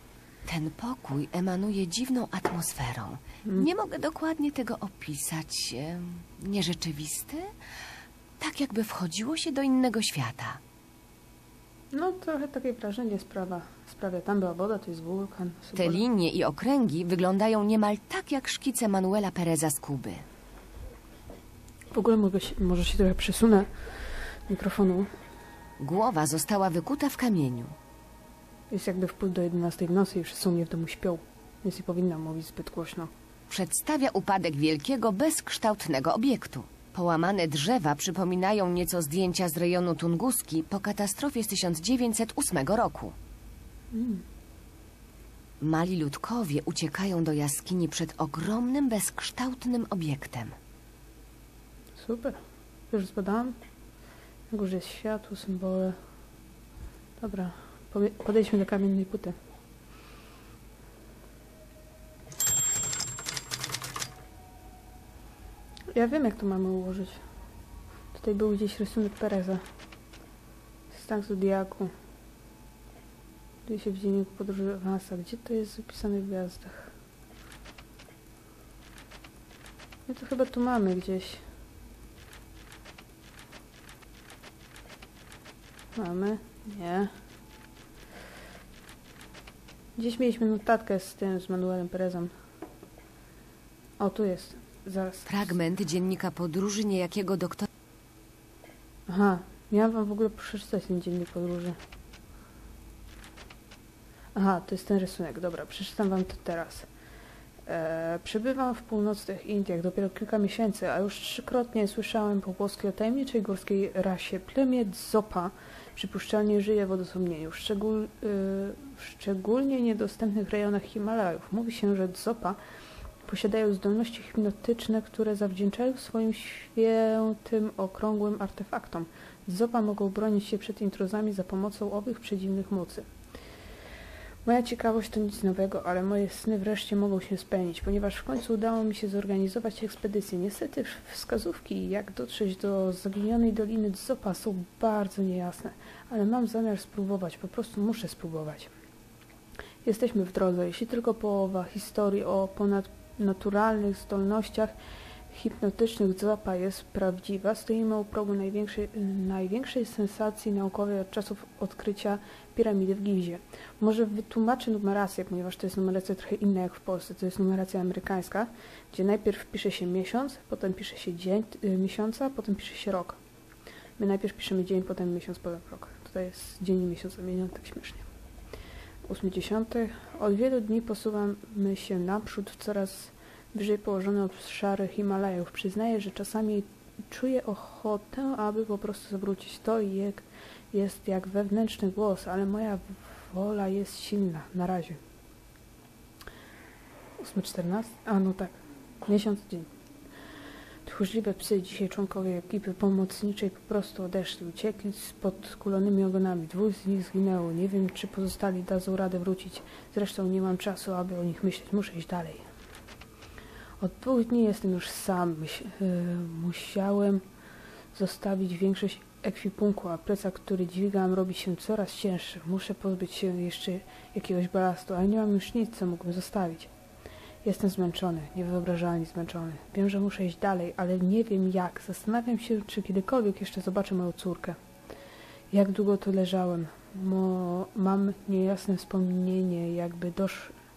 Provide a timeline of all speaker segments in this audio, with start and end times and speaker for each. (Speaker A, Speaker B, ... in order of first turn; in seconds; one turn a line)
Speaker A: 0.5-7.5
Speaker A: 8.4-10.6
Speaker B: 11.9-16.0
Speaker A: 15.8-20.2
Speaker B: 21.9-23.7
Speaker B: 24.5-25.1
Speaker A: 25.8-27.7
Speaker B: 28.7-33.1
Speaker A: 33.5-43.1
Speaker B: 43.9-44.2
Speaker A: 45.6-50.5
Speaker B: 52.0-52.4
Speaker B: 52.9-53.6
Speaker B: 54.5-56.0
Speaker B: 57.2-59.4
Speaker B: 65.9-67.2
Speaker B: 68.1-69.6
Speaker B: 70.9-71.9
Speaker B: 73.7-76.9
Speaker B: 80.1-81.4
Speaker B: 86.0-87.1
Speaker B: 90.0-92.3
Speaker B: 94.0-95.5
Speaker A: 95.3-97.7
Speaker B: 99.1-101.8
Speaker B: 104.3-106.9
Speaker B: 107.7-122.6
Speaker B: 123.3-133.1
Speaker B: 134.4-148.7
Speaker B: 149.8-154.7
Speaker B: 155.3-173.2
Speaker B: 174.0-178.1
Speaker B: 179.1-195.0
Speaker B: 197.2-199.7
Speaker B: 200.8-212.4
Speaker B: 213.8-217.2
Speaker B: 217.9-226.7
Speaker B: 227.4-234.6
Speaker B: 235.5-240.6